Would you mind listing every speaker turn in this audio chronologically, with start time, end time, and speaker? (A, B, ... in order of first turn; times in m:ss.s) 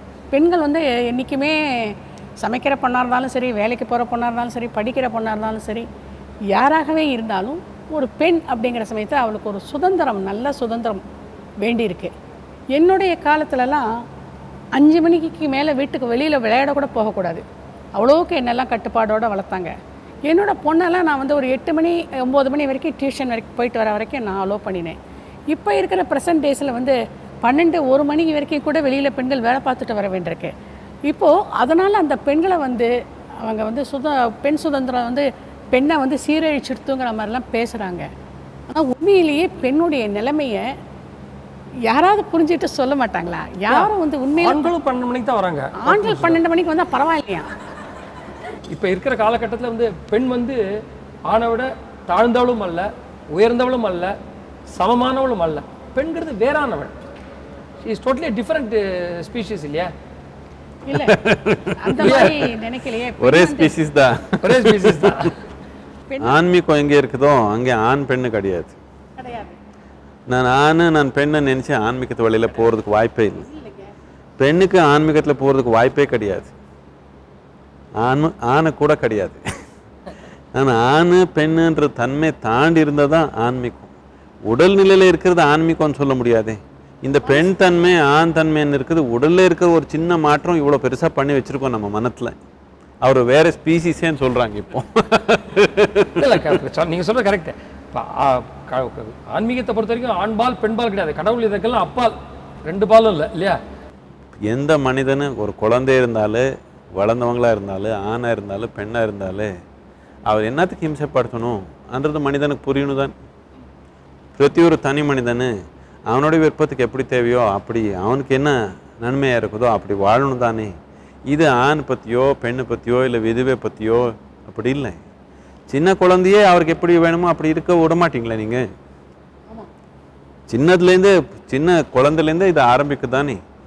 0:00.3-0:05.8 A
0:06.5-0:11.0 A
0:11.6-0:12.1 A
0:12.7-0:13.8 A
0:14.8-0:17.4 A
0:18.0-0:19.7 A
0:20.3-0:25.0 A
0:25.5-0:30.5 A
0:31.1-0:32.9 A
0:33.4-0:38.0 A
0:38.7-0:40.6 A
0:41.9-0:44.7 A
0:43.7-0:46.4 B
0:45.8-0:47.5 A
0:48.7-0:50.6 B
0:51.3-0:54.1 B
0:54.7-0:57.0 B
0:57.8-0:59.9 B
1:00.8-1:01.2 A
1:00.9-1:02.4 C
1:01.8-1:03.7 A
1:02.0-1:02.3 B
1:03.2-1:05.2 C
1:04.4-1:05.3 B
1:06.1-1:06.4 A
1:06.2-1:08.8 C
1:09.2-1:09.5 A
1:10.3-1:13.5 C
1:14.4-1:16.5 C
1:18.0-1:19.4 C
1:20.5-1:23.9 C
1:24.5-1:32.3 C
1:33.0-1:36.4 C
1:36.1-1:42.1 B
1:42.6-1:43.6 B
1:44.5-1:49.5 C
1:50.3-1:53.1 C
1:54.4-1:55.5 C
1:56.1-2:00.7 C
2:01.3-2:05.0 C
2:05.7-2:08.6 C
2:10.5-2:13.4 C